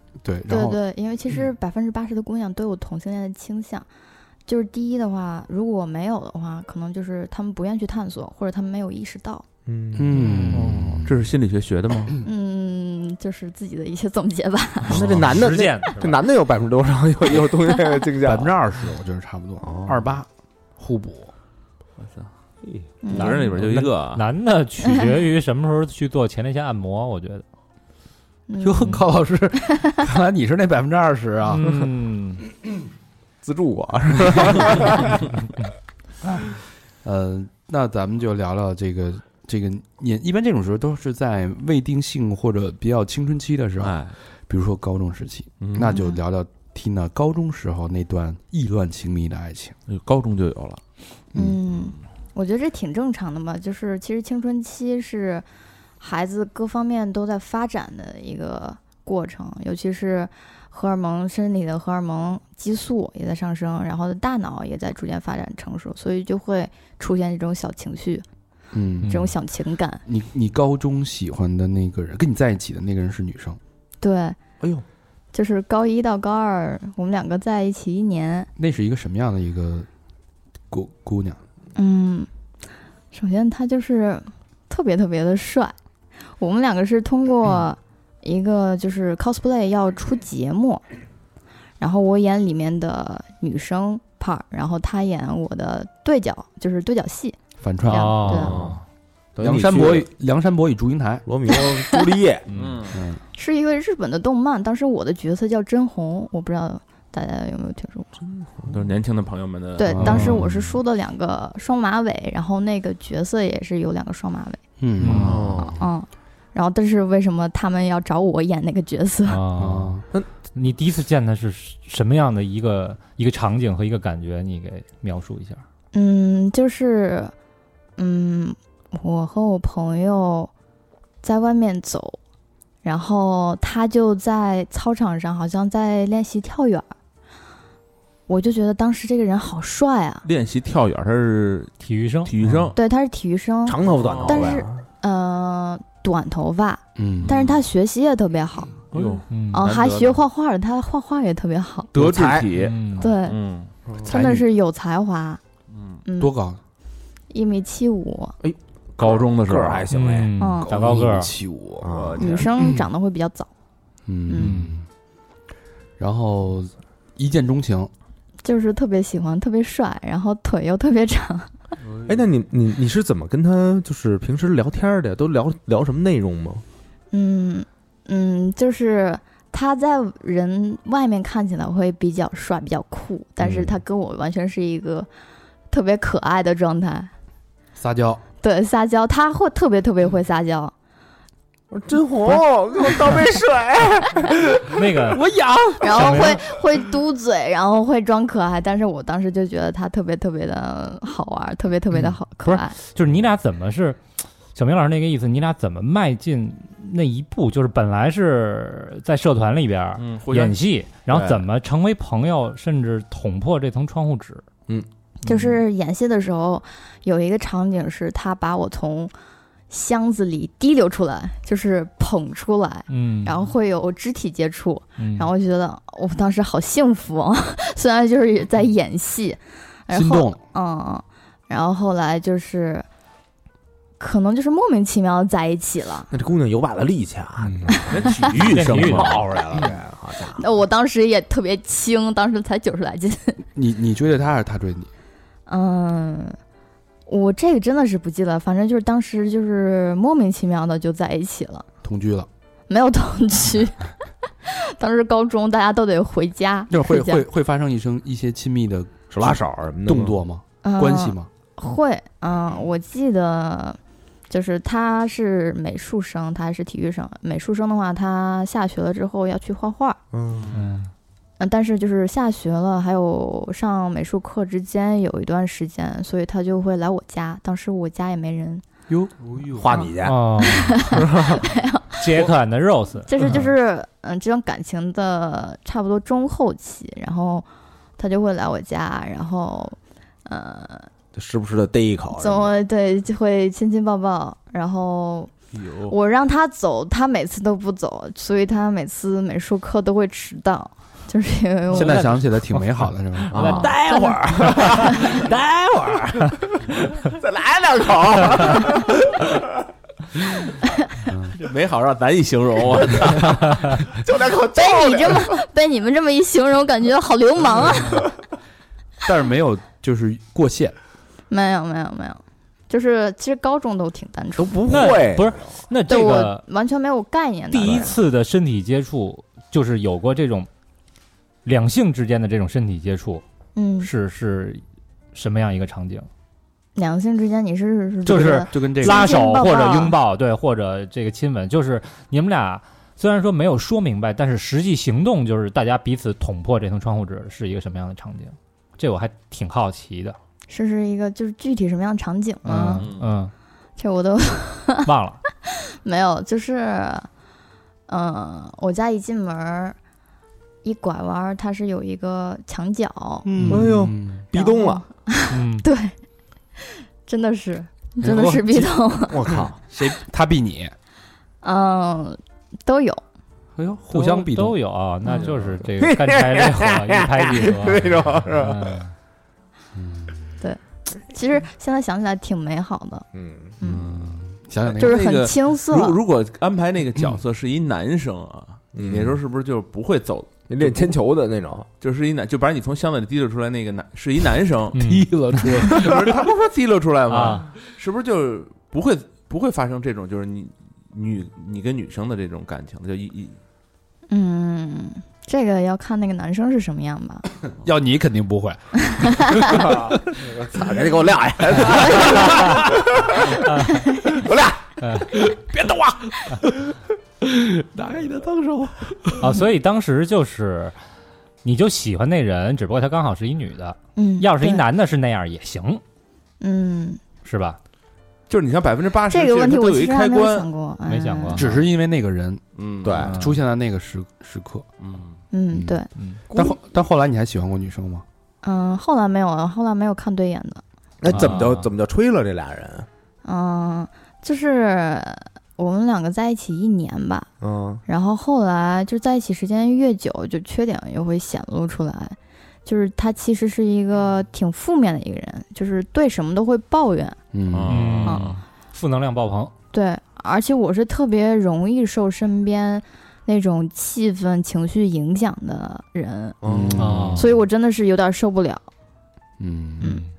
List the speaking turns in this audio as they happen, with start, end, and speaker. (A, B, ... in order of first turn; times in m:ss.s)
0:00.2-0:00.8 A
0:00.5-0:03.9 B
0:04.5-0:09.4 B
0:09.7-0:10.6 C
0:10.0-0:11.2 A
0:10.1-0:11.0 D
0:10.5-0:12.2 E
0:12.2-0:15.0 B
0:14.9-0:18.5 C
0:14.9-0:15.3 A
0:15.2-0:16.2 D
0:18.2-0:20.3 A
0:19.6-0:20.1 C
0:20.8-0:21.3 A
0:22.0-0:22.3 E
0:23.0-0:23.4 B
0:23.1-0:24.2 E
0:23.2-0:27.4 D
0:28.5-0:29.0 B
0:28.6-0:31.6 A
0:31.5-0:32.4 D
0:33.4-0:35.2 C
0:37.0-0:49.8 A
0:43.8-0:44.2 E
0:45.6-0:46.0 E
0:45.9-0:46.2 B
0:49.9-0:50.8 E
0:51.4-0:55.4 B
0:56.0-1:08.2 B
1:08.7-1:09.2 A
1:09.0-1:09.3 D
1:09.0-1:10.0 B
1:10.0-1:13.6 A
1:14.0-1:14.4 B
1:14.6-1:14.8 C
1:15.3-1:18.5 B
1:18.6-1:19.9 A
1:20.7-1:21.4 A
1:21.8-1:22.3 B
1:23.1-1:25.8 B
1:26.4-1:30.8 B
1:31.8-1:38.6 B
1:37.6-1:38.6 A
1:37.9-1:38.8 D
1:38.3-1:38.8 C
1:39.4-1:40.1 C
1:39.4-1:41.3 A
1:41.3-1:42.5 C
1:41.5-1:42.0 B
1:42.5-1:42.8 D
1:42.5-1:43.0 E
1:42.9-1:43.2 A
1:43.4-1:48.1 B
1:48.4-1:48.8 C
1:48.7-1:50.0 E
1:49.8-1:54.6 B
1:49.9-1:50.7 A
1:50.0-1:50.5 D
1:54.8-1:55.7 A
1:55.0-1:55.5 D
1:55.1-1:55.5 E
1:55.1-1:55.8 C
1:55.6-1:59.4 B
1:59.3-2:00.0 D
1:59.6-2:00.0 A
2:00.5-2:05.6 D
2:05.9-2:07.3 B
2:08.0-2:10.5 B
2:11.2-2:12.2 B
2:12.8-2:16.9 B
2:18.3-2:20.2 B
2:20.2-2:22.8 E
2:21.8-2:22.3 D
2:22.4-2:22.7 A
2:22.8-2:28.9 B
2:23.7-2:24.8 C
2:23.9-2:24.6 E
2:27.0-2:27.3 A
2:27.2-2:27.6 E
2:28.9-2:30.2 E
2:28.9-2:29.2 C
2:29.3-2:29.7 D
2:29.5-2:31.9 B
2:31.9-2:32.5 C
2:31.9-2:33.7 E
2:32.6-2:33.1 D
2:33.0-2:33.4 B
2:34.0-2:35.4 B
2:34.0-2:34.5 A
2:35.7-2:36.0 E
2:36.0-2:36.3 B
2:36.2-2:36.6 A
2:37.3-2:38.4 B
2:38.4-2:40.3 C
2:39.0-2:40.2 E
2:39.9-2:41.3 D
2:40.4-2:40.7 B
2:40.6-2:42.0 A
2:41.8-2:42.5 C
2:41.9-2:42.5 E
2:42.2-2:43.5 B
2:44.1-2:44.9 A
2:44.3-2:44.6 B
2:44.4-2:44.8 D
2:46.0-2:47.9 A
2:48.4-2:51.5 B
2:51.9-2:52.2 E
2:52.1-2:56.6 C
2:57.1-3:05.1 B
3:03.4-3:03.8 C
3:05.7-3:07.1 B
3:07.8-3:08.2 A
3:08.4-3:10.7 B
3:11.7-3:14.8 C
3:14.7-3:15.3 D
3:15.3-3:15.8 A
3:15.8-3:22.8 B
3:15.8-3:16.4 D
3:22.4-3:24.0 D
3:24.6-3:34.4 D
3:30.0-3:30.6 E
3:31.1-3:31.4 C
3:35.2-3:39.1 B
3:35.2-3:35.6 D
3:39.7-3:52.9 B
3:42.9-3:43.5 D
3:45.0-3:45.3 D
3:49.9-3:50.4 A
3:54.0-3:56.1 B
3:56.1-4:00.4 C
3:57.4-3:57.8 A
3:57.9-3:59.3 E
3:58.5-3:59.6 D
4:00.4-4:03.4 B
4:03.6-4:04.9 A
4:05.5-4:06.4 B
4:07.1-4:11.7 B
4:11.8-4:12.3 A
4:12.7-4:13.9 B
4:14.4-4:17.2 B
4:16.7-4:21.3 A
4:19.1-4:20.2 C
4:20.6-4:23.8 B
4:24.3-4:30.0 B
4:30.1-4:30.5 C
4:30.4-4:30.6 E
4:30.5-4:30.9 D
4:31.4-4:38.6 B
4:38.9-4:39.8 A
4:39.6-4:40.4 C
4:40.0-4:40.9 D
4:40.4-4:42.0 B
4:40.9-4:41.4 C
4:42.0-4:43.4 D
4:43.1-4:47.5 B
4:48.0-4:50.9 B
4:51.1-4:52.6 C
4:52.1-4:55.3 B
4:55.5-4:55.9 E
4:55.9-5:02.1 B
5:01.7-5:03.6 A
5:01.7-5:03.9 D
5:03.3-5:09.4 C
5:03.6-5:05.0 B
5:04.6-5:04.9 D
5:11.1-5:11.4 A
5:11.4-5:13.7 E
5:13.9-5:15.3 C
5:14.6-5:18.1 B
5:19.0-5:20.8 A
5:21.3-5:24.9 B
5:24.4-5:25.6 C
5:24.7-5:26.4 D
5:25.9-5:28.0 B
5:27.5-5:30.5 D
5:27.6-5:27.9 C
5:31.4-5:33.2 D
5:33.6-5:33.9 B
5:33.8-5:36.1 D
5:36.8-5:40.0 B
5:38.1-5:50.2 D
5:38.1-5:39.2 A
5:50.5-5:52.9 B
5:52.4-5:53.3 D
5:52.8-5:53.1 E
5:53.8-5:54.9 B
5:54.8-5:55.2 D
5:55.5-5:57.1 B
5:57.9-5:59.8 B
6:00.6-6:03.3 B
6:03.3-6:04.2 A
6:03.4-6:03.7 D
6:03.5-6:04.8 C
6:04.3-6:05.9 B
6:05.3-6:05.7 D
6:06.6-6:09.2 B
6:08.0-6:08.7 A
6:09.1-6:09.6 C
6:09.7-6:10.7 A
6:11.4-6:13.0 B
6:13.6-6:14.6 A
6:13.9-6:18.9 D
6:15.2-6:15.6 E
6:15.8-6:18.7 C
6:19.8-6:20.2 A
6:20.4-6:23.1 B
6:23.1-6:23.6 C
6:23.6-6:23.9 B
6:23.6-6:24.1 E
6:23.7-6:25.0 A
6:24.6-6:31.0 E
6:24.8-6:26.0 B
6:28.7-6:29.2 C
6:30.5-6:31.7 C
6:31.8-6:34.8 E
6:34.7-6:35.7 D
6:34.8-6:36.3 A
6:35.7-6:43.4 E
6:37.1-6:37.5 D
6:44.1-6:47.3 B
6:47.6-6:49.9 A
6:49.0-6:49.4 B
6:49.5-6:53.5 C
6:52.2-6:54.2 D
6:54.1-6:59.4 C
6:54.8-6:55.2 D
6:59.2-7:00.8 D
7:01.4-7:05.8 D
7:04.0-7:04.6 B
7:06.4-7:07.0 B
7:07.2-7:07.6 D
7:08.3-7:10.5 E
7:09.1-7:11.4 B
7:10.9-7:11.6 D
7:11.4-7:12.4 A
7:12.6-7:13.2 E
7:12.8-7:13.2 C
7:13.0-7:14.7 A
7:13.0-7:13.4 D
7:14.8-7:15.2 E
7:15.3-7:15.9 B
7:15.5-7:18.0 A
7:16.0-7:16.2 D
7:16.3-7:16.6 C
7:18.4-7:20.6 B
7:21.0-7:22.9 C
7:21.1-7:21.7 D
7:23.2-7:27.3 B
7:27.4-7:27.8 C
7:27.9-7:37.2 B
7:37.3-7:38.0 A
7:37.5-7:38.4 E
7:37.7-7:39.5 D
7:38.0-7:38.4 B
7:39.7-7:46.4 B
7:46.4-7:47.1 C
7:46.5-7:47.3 A
7:46.8-7:47.3 D
7:47.1-7:48.6 B
7:49.4-7:50.0 A